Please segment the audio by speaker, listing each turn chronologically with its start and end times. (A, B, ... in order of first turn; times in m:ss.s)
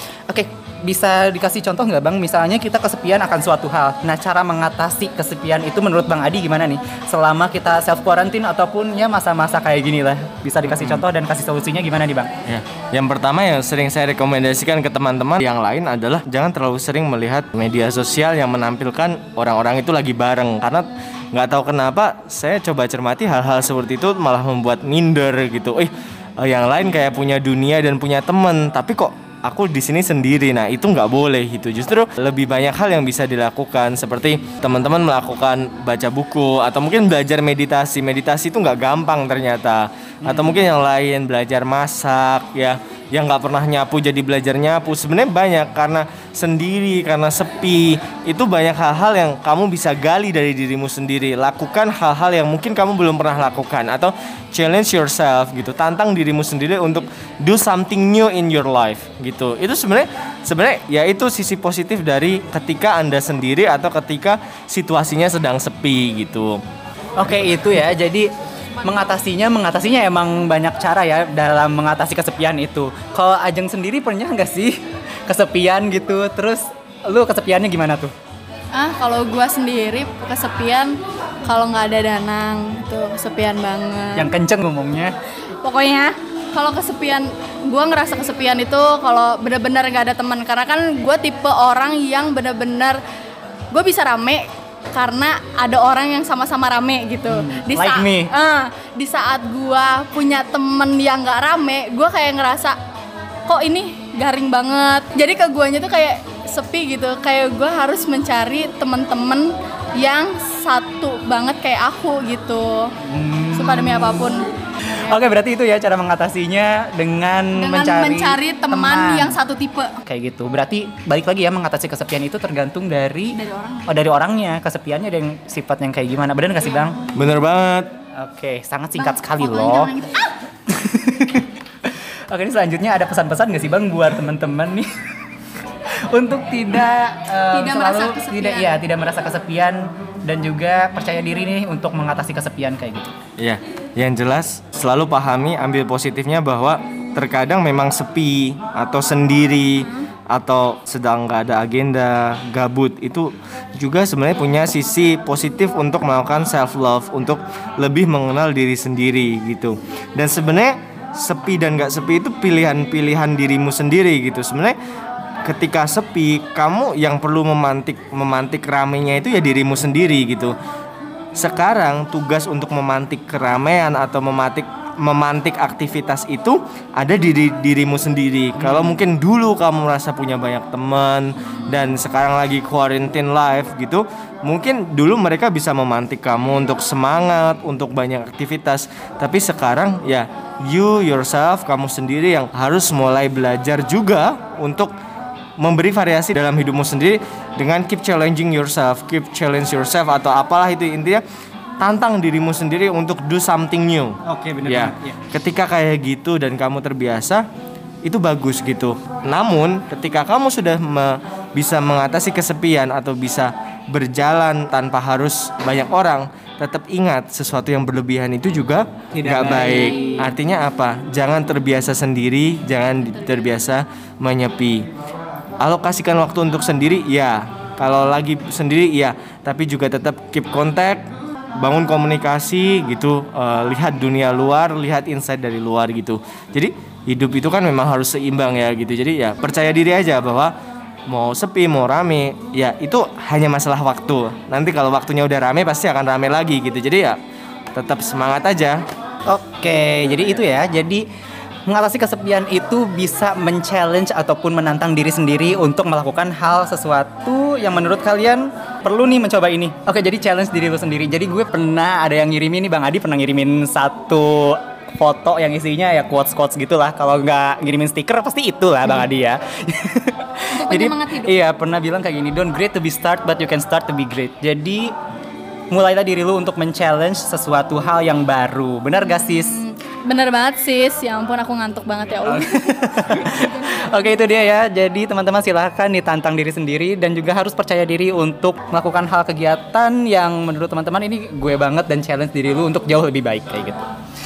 0:00.3-0:12.3 A
0:10.7-0:11.0 B
0:12.4-1:06.6 B
0:40.2-0:40.6 A
1:07.2-1:08.3 A
1:08.8-1:18.1 A
1:18.7-1:24.3 C
1:24.2-1:25.2 A
1:25.6-1:33.0 C
1:33.7-1:42.8 C
1:37.3-1:38.3 A
1:43.5-1:52.9 C
1:53.0-1:54.3 A
1:53.5-1:54.4 C
1:54.9-1:59.4 A
1:57.6-2:00.0 C
2:00.0-2:07.0 A
2:03.3-2:03.9 C
2:07.2-2:07.9 B
2:08.2-2:09.9 A
2:09.0-2:10.4 C
2:10.7-2:14.9 A
2:15.9-2:23.1 A
2:17.5-2:18.8 C
2:23.4-2:44.8 B
2:45.4-2:50.6 B
2:51.4-3:14.9 B
2:58.6-2:59.0 A
3:15.6-3:21.2 B
3:21.8-3:27.4 B
3:24.3-3:25.2 A
3:28.0-3:44.9 B
3:39.1-3:40.3 A
3:43.0-3:43.5 C
3:45.6-4:00.5 B
4:01.1-4:07.2 B
4:07.8-4:08.8 B
4:09.3-4:11.1 A
4:11.7-4:34.9 A
4:30.5-4:31.4 C
4:35.7-4:39.6 A
4:39.2-4:44.3 C
4:42.2-4:53.8 A